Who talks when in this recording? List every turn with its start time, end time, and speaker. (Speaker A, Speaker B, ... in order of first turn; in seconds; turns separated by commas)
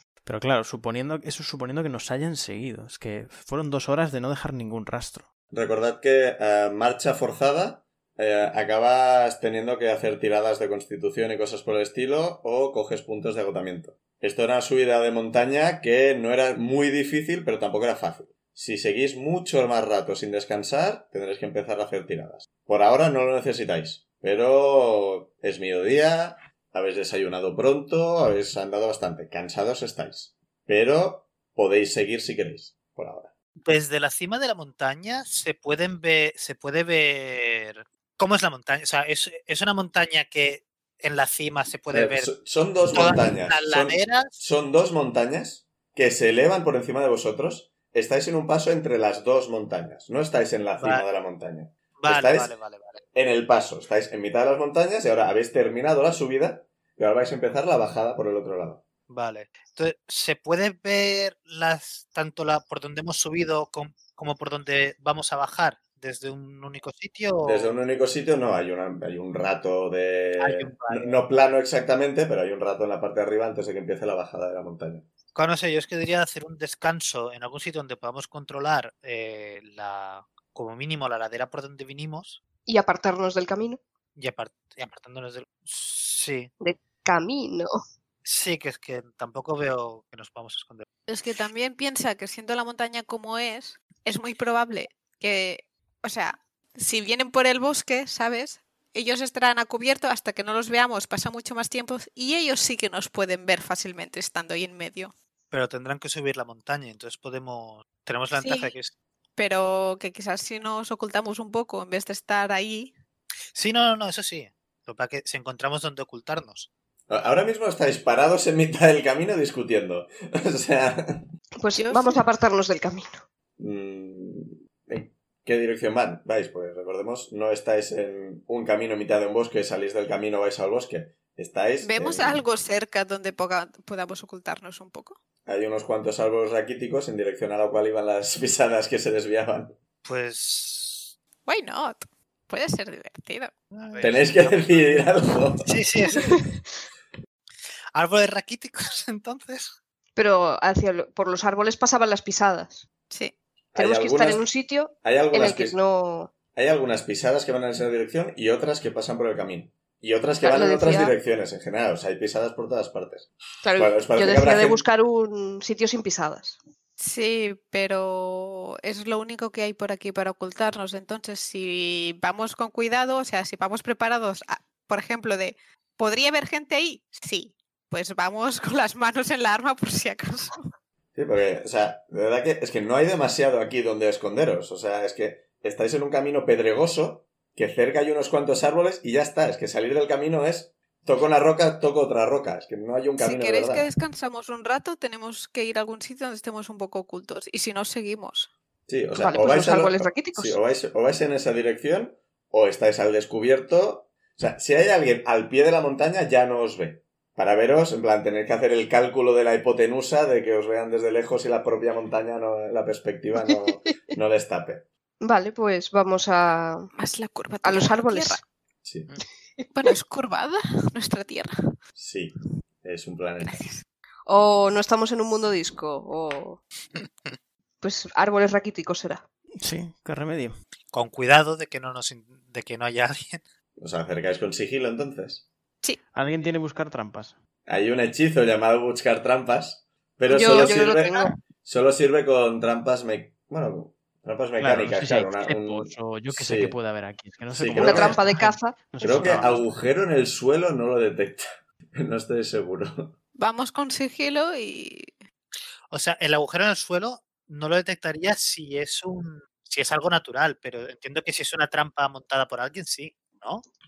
Speaker A: 0.2-5.3, Speaker B: 5.5-33.3, Speaker C: 33.6-42.4, Speaker B: 41.9-52.5, Speaker C: 42.9-44.4, Speaker C: 50.8-51.0, Speaker C: 52.0-53.0, Speaker B: 53.1-58.8, Speaker C: 59.1-67.7, Speaker B: 67.4-75.1, Speaker C: 70.4-71.2, Speaker C: 75.3-82.4, Speaker D: 82.7-83.8, Speaker C: 84.2-86.5, Speaker D: 86.6-87.7, Speaker C: 88.2-90.9, Speaker E: 91.1-105.1, Speaker C: 105.5-108.9, Speaker E: 108.4-108.7, Speaker E: 109.4-112.9, Speaker C: 113.5-116.7, Speaker B: 117.1-121.3, Speaker D: 121.6-123.2, Speaker E: 121.8-122.2, Speaker B: 123.6-132.4, Speaker E: 131.8-135.2, Speaker B: 135.5-139.8, Speaker C: 140.0-141.1, Speaker E: 141.5-143.6, Speaker C: 143.7-145.0, Speaker B: 144.0-145.7, Speaker C: 145.6-146.4, Speaker C: 147.9-149.7, Speaker D: 150.2-152.8, Speaker B: 153.7-154.4, Speaker D: 153.8-156.3, Speaker B: 155.0-155.8, Speaker B: 156.5-164.8, Speaker D: 160.4-161.1, Speaker D: 163.6-166.6, Speaker E: 167.0-180.6, Speaker B: 181.2-193.9, Speaker E: 193.2-198.5, Speaker B: 198.9-214.9, Speaker D: 199.2-200.6, Speaker D: 215.2-216.9, Speaker E: 217.0-218.4, Speaker D: 217.6-218.4, Speaker B: 218.8-219.1, Speaker E: 219.7-221.5, Speaker B: 222.0-223.6, Speaker E: 223.4-223.8, Speaker D: 224.3-226.6, Speaker D: 227.8-229.2, Speaker A: 229.6-230.6, Speaker C: 230.9-233.4, Speaker B: 233.8-235.5, Speaker A: 236.1-237.4, Speaker B: 237.7-246.8, Speaker D: 240.3-241.3, Speaker A: 244.6-249.7, Speaker B: 247.5-248.2, Speaker D: 247.8-249.5, Speaker B: 249.0-253.2, Speaker E: 253.4-255.1, Speaker C: 255.9-263.6